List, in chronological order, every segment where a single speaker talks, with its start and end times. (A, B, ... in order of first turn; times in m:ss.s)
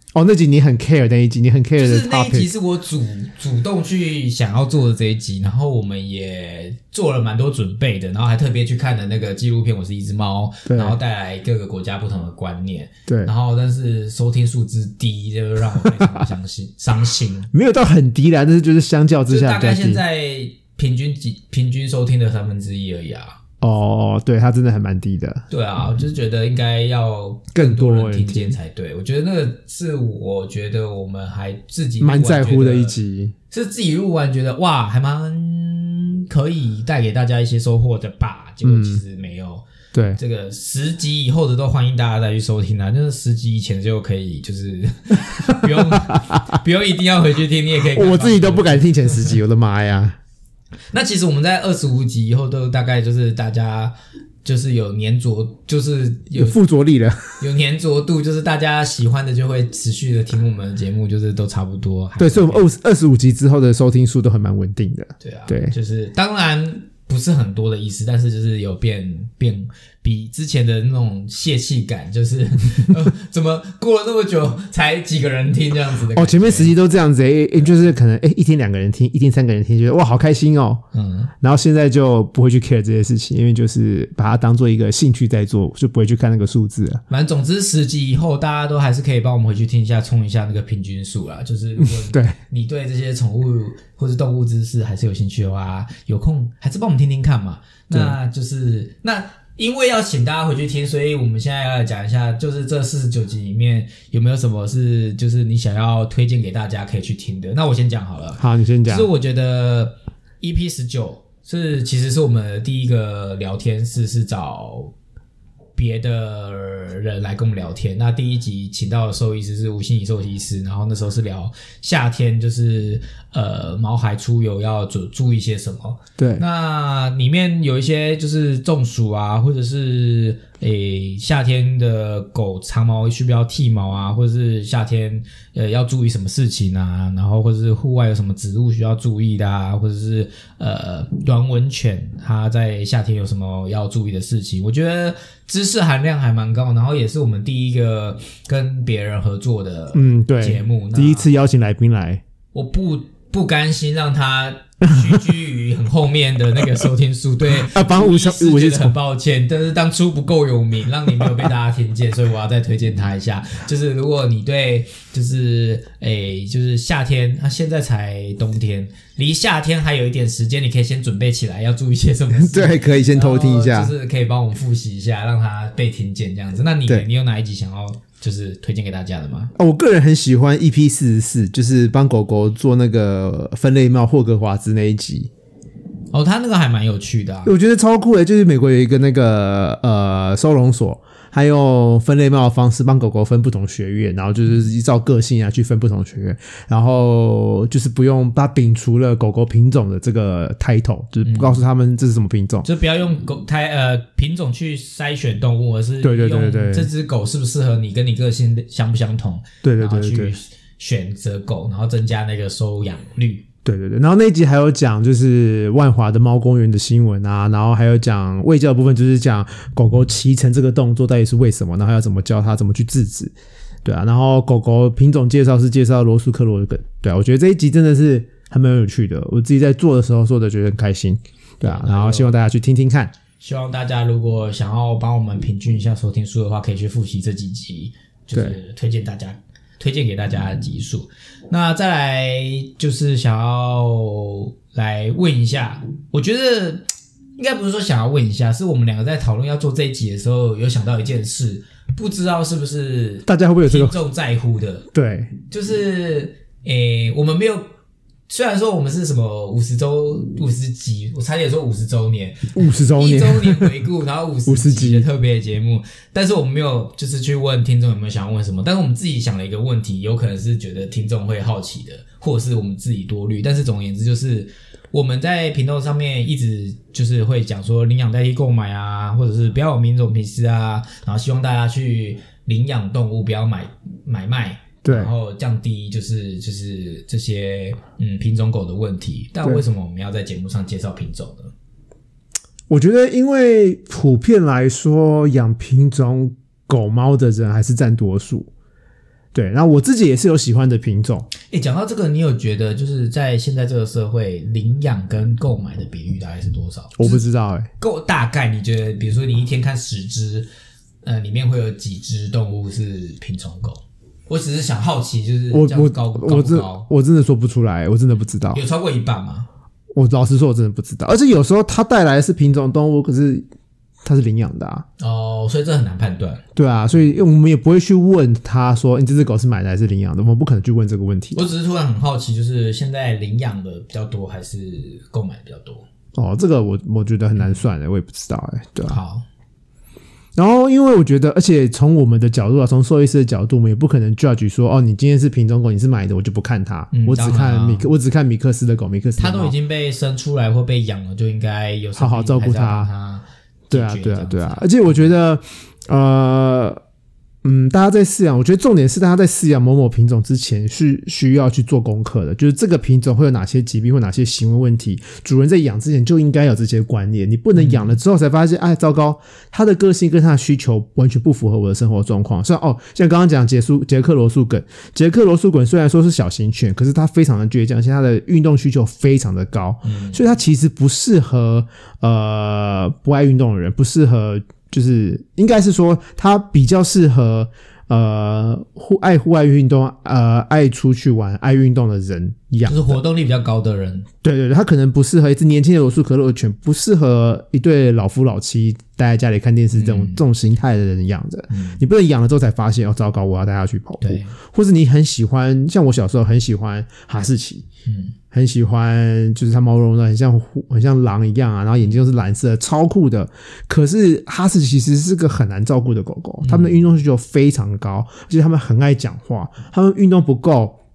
0:00.1-0:02.5 A
0:01.8-0:17.5 B
0:10.7-0:11.0 A
0:15.8-0:16.2 A
0:17.5-0:20.0 A
0:19.3-0:23.4 B
0:23.6-0:25.4 A
0:25.5-0:33.0 B
0:27.5-0:28.6 A
0:32.0-0:33.3 A
0:33.5-0:39.6 B
0:38.6-0:39.0 A
0:39.9-0:40.2 A
0:40.2-0:49.3 B
0:45.5-0:46.5 A
0:47.9-0:50.2 A
0:50.9-0:53.9 B
0:54.4-0:56.6 B
0:56.3-0:57.4 A
0:57.4-1:02.7 B
1:02.2-1:05.7 A
1:05.2-1:16.7 B
1:16.1-1:20.8 A
1:20.9-1:21.3 B
1:21.4-1:27.0 A
1:27.1-1:54.9 B
1:31.8-1:32.4 A
1:48.4-1:49.1 A
1:55.7-2:31.3 B
2:06.2-2:06.4 A
2:29.9-2:32.2 A
2:32.5-2:59.5 B
2:37.6-2:39.0 A
2:52.3-2:53.9 A
2:59.6-3:05.3 A
3:06.1-3:07.5 B
3:07.4-3:22.6 A
3:21.2-3:21.6 B
3:22.6-3:33.4 B
3:26.0-3:26.9 A
3:29.6-3:30.3 A
3:33.6-3:43.3 A
3:43.8-3:53.1 A
3:51.6-3:52.3 B
3:53.4-4:06.8 B
4:07.4-4:14.8 B
4:13.2-4:14.0 A
4:14.9-4:15.3 A
4:15.5-4:17.6 B
4:18.3-4:51.5 B
4:22.5-4:23.7 A
4:24.4-4:25.0 A
4:44.8-4:45.1 A
4:52.7-4:58.5 A
4:59.3-5:01.3 A
5:01.5-5:07.2 B
5:07.0-5:07.7 A
5:07.8-5:10.5 B
5:11.0-5:16.9 B
5:15.5-5:18.6 A
5:18.5-5:19.5 B
5:20.0-5:23.4 A
5:24.0-5:24.8 A
5:25.0-5:26.4 B
5:26.6-5:31.5 A
5:31.3-5:35.8 B
5:36.1-5:39.0 A
5:37.4-5:37.6 B
5:38.8-5:39.2 B
5:40.4-5:49.5 A
5:46.9-5:47.9 B
5:49.2-5:55.1 B
5:52.0-5:52.9 A
5:53.7-5:56.8 A
5:57.4-6:33.0 A
6:07.5-6:08.0 B
6:19.8-6:20.2 B
6:32.6-6:34.1 B
6:34.2-6:47.6 A
6:39.7-6:40.2 B
6:41.5-6:41.8 B
6:44.0-6:44.3 B
6:47.8-6:48.1 B
6:48.3-7:00.8 A
6:56.4-6:57.0 B